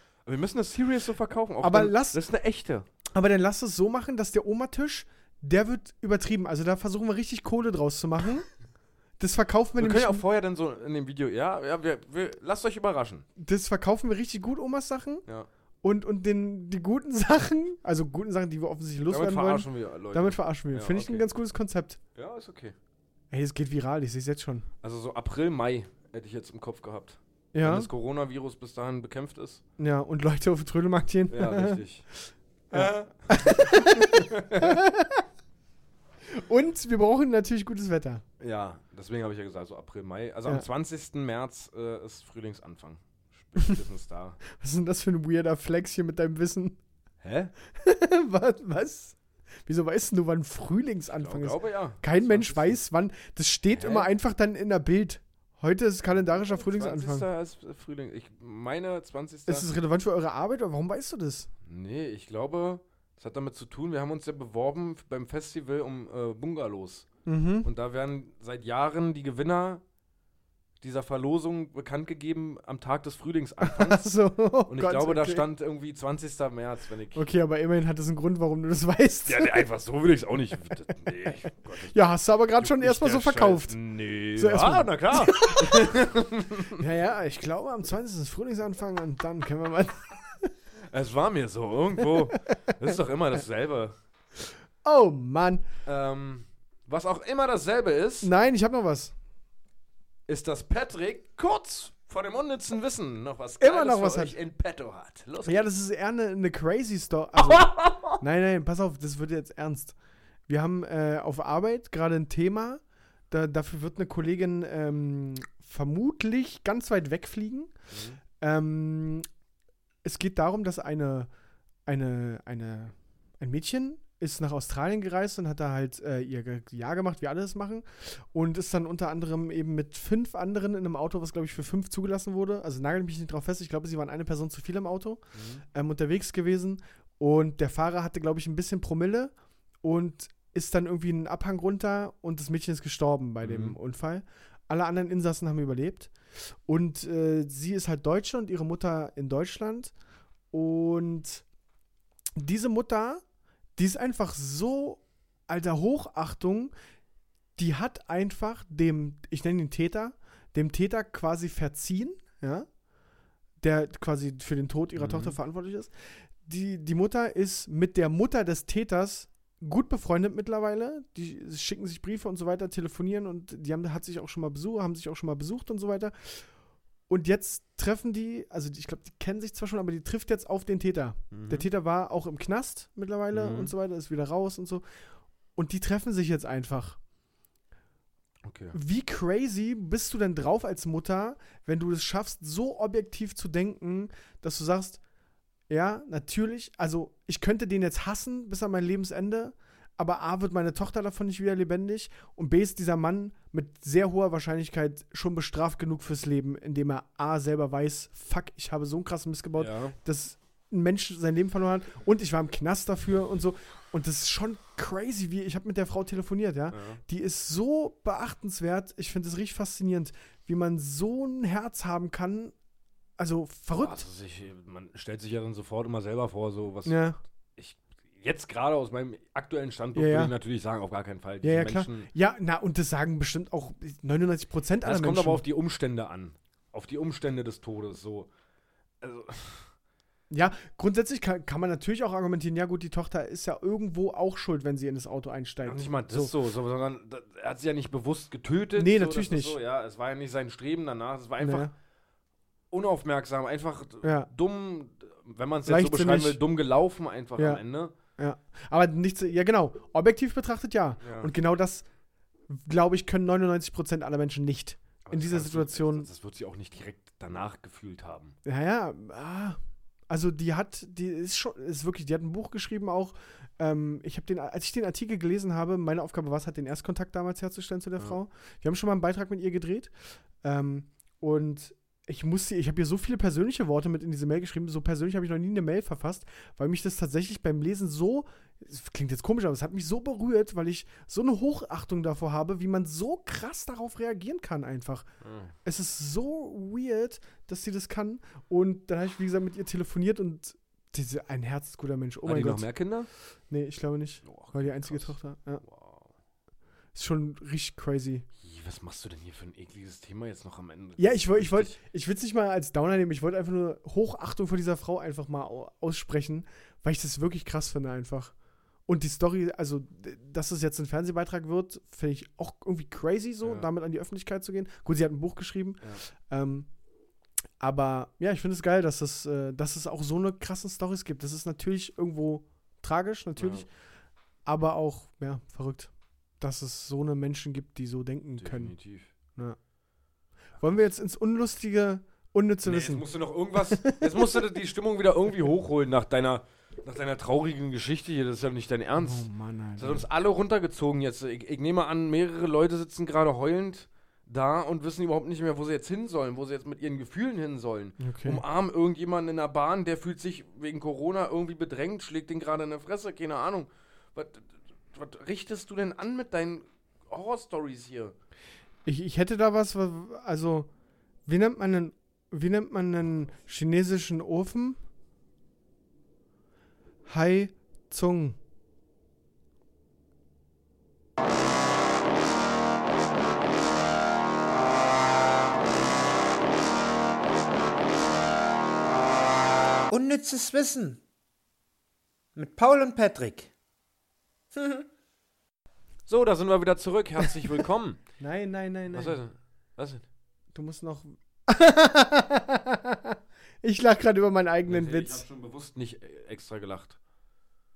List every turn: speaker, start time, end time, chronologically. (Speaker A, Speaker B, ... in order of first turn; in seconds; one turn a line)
Speaker A: 0.2-2.9
Speaker B: 1.6-2.2
Speaker B: 3.1-8.5
Speaker B: 9.2-10.2
Speaker A: 9.8-13.3
Speaker B: 13.4-15.2
Speaker B: 15.8-22.0
Speaker A: 19.1-21.2
Speaker A: 22.2-22.8
Speaker B: 23.3-24.7
Speaker A: 24.8-29.6
Speaker B: 27.5-27.9
Speaker B: 29.8-31.8
Speaker A: 31.3-32.1
Speaker A: 32.7-34.8
Speaker B: 32.7-35.2
Speaker B: 36.3-38.2
Speaker A: 38.4-44.4
Speaker B: 44.5-46.8
Speaker A: 47.2-47.5
Speaker B: 47.7-57.3
Speaker A: 51.1-52.8
Speaker A: 53.7-54.1
Speaker A: 56.2-59.7
Speaker B: 59.5-61.5
Speaker A: 61.6-67.1
Speaker B: 67.3-67.7
Speaker A: 67.6-69.8
Speaker A: 70.8-74.1
Speaker B: 73.6-75.4
Speaker A: 74.7-77.2
Speaker B: 77.2-79.7
Speaker A: 79.3-82.0
Speaker B: 81.8-83.8
Speaker A: 82.6-86.8
Speaker B: 84.4-86.0
Speaker B: 86.8-90.5
Speaker A: 90.9-94.0
Speaker B: 94.8-95.7
Speaker A: 95.9-98.3
Speaker B: 98.2-99.1
Speaker A: 100.3-105.7
Speaker B: 103.6-104.4
Speaker B: 105.5-110.0
Speaker A: 107.5-108.2
Speaker B: 110.5-117.7
Speaker A: 117.9-118.2
Speaker B: 118.4-119.3
Speaker B: 120.0-121.3
Speaker B: 121.9-149.9
Speaker A: 135.3-135.6
Speaker A: 143.4-143.8
Speaker B: 150.5-151.4
Speaker B: 152.4-153.2
Speaker B: 153.8-156.7
Speaker B: 157.6-162.7
Speaker B: 163.6-176.5
Speaker A: 165.0-165.4
Speaker B: 177.1-184.8
Speaker A: 181.3-181.7
Speaker A: 183.3-183.7
Speaker B: 185.6-187.0
Speaker A: 188.4-188.8
Speaker B: 188.7-195.0
Speaker B: 195.7-222.5
Speaker A: 209.6-209.9
Speaker A: 216.7-217.0
Speaker B: 223.2-224.0
Speaker A: 223.7-227.0
Speaker B: 226.9-227.2
Speaker A: 227.6-232.1
Speaker B: 229.9-230.3
Speaker B: 231.4-235.4
Speaker A: 234.8-238.3
Speaker A: 239.0-239.7
Speaker B: 240.3-246.3
Speaker A: 245.7-251.7
Speaker B: 248.8-249.6
Speaker B: 251.4-251.7
Speaker A: 252.7-257.9
Speaker B: 254.0-254.3
Speaker B: 255.7-256.4
Speaker B: 257.4-257.6
Speaker B: 258.2-261.9
Speaker A: 261.0-261.3
Speaker B: 262.5-266.1
Speaker A: 265.1-268.4
Speaker B: 268.4-269.6
Speaker B: 270.1-279.9
Speaker B: 280.4-295.1
Speaker A: 295.2-295.5
Speaker B: 295.6-302.7
Speaker A: 302.2-303.1
Speaker B: 303.5-305.6
Speaker A: 304.2-306.1
Speaker B: 306.9-308.3
Speaker A: 308.4-311.8
Speaker B: 311.0-318.3
Speaker B: 318.9-326.7
Speaker A: 323.4-323.7
Speaker B: 327.6-333.7
Speaker A: 333.4-333.7
Speaker B: 334.5-338.7
Speaker A: 338.4-339.1
Speaker B: 340.6-343.1
Speaker A: 342.6-349.3
Speaker B: 343.6-344.5
Speaker B: 349.0-350.1
Speaker A: 349.8-368.2
Speaker B: 358.0-358.4
Speaker B: 368.9-370.7
Speaker B: 371.3-374.8
Speaker B: 377.1-378.4
Speaker C: 389.9-391.0
Speaker C: 392.4-393.5
Speaker C: 394.5-394.9
Speaker A: 396.1-398.0
Speaker B: 398.2-399.2
Speaker A: 398.9-400.1
Speaker B: 400.5-405.2
Speaker A: 404.7-407.0